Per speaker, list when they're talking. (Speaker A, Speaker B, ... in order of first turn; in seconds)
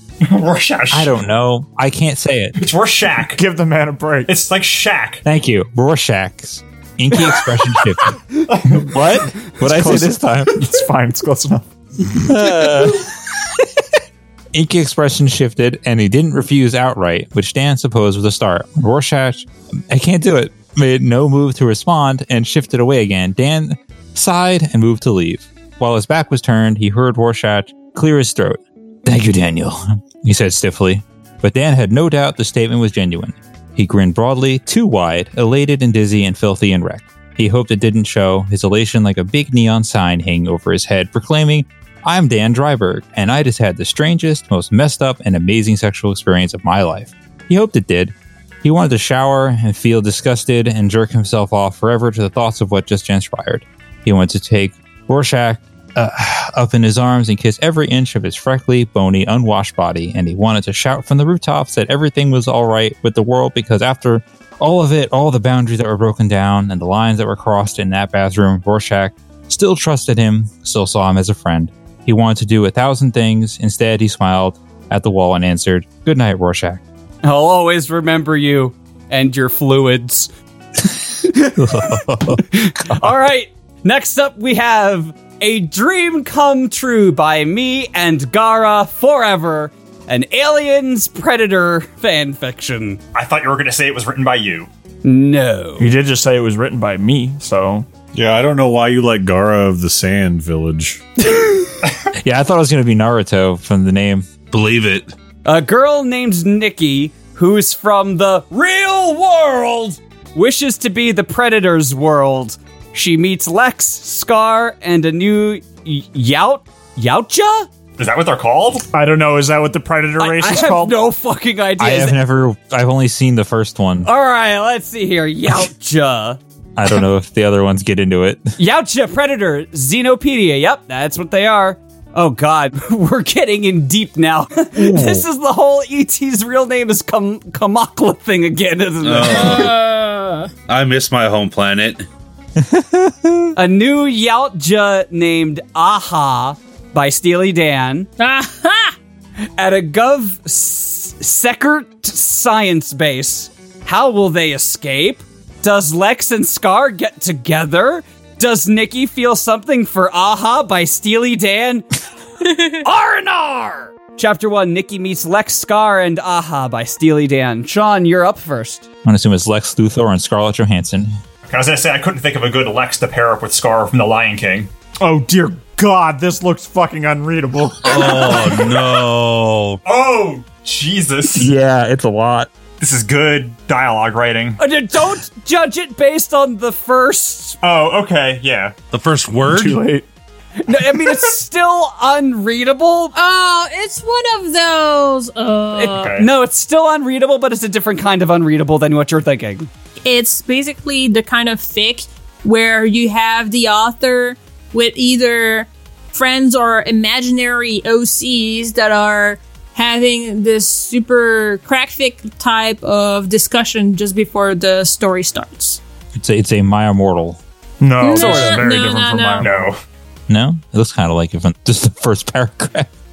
Speaker A: 0.2-1.2, 2.6-3.4, 4.3-5.2, 8.5-8.8, 93.1-94.7, 118.0-118.8, 171.5-174.7, 179.8-181.5, 182.8-184.6, 187.6-188.7, 195.9-196.3, 219.4-219.8
Speaker B: 0.9-2.6, 5.2-10.6, 12.1-13.1, 14.5-76.8, 81.5-83.1, 102.2-104.3, 121.8-124.1, 126.8-128.4, 134.9-135.2, 142.6-143.4, 169.0-171.1, 181.3-182.5, 216.1-217.4, 220.3-222.9
Speaker C: 3.4-4.3, 9.6-11.7, 95.8-97.9, 118.9-121.0, 175.0-178.7, 189.5-190.1, 217.8-219.7
Speaker D: 77.2-80.3, 81.2-82.0, 82.5-93.0, 95.0-95.9, 105.4-117.7, 120.2-122.2, 124.0-126.4, 128.6-139.7, 143.6-148.1, 149.6-161.8, 162.7-168.8, 184.6-187.6, 190.6-193.1, 195.7-199.7
Speaker E: 98.1-101.0
Speaker F: 104.5-105.1, 139.0-139.8, 140.7-142.1, 177.8-179.8, 188.9-189.8
Speaker G: 139.3-140.5, 148.2-148.9, 193.1-196.1, 200.0-215.8, 218.0-219.5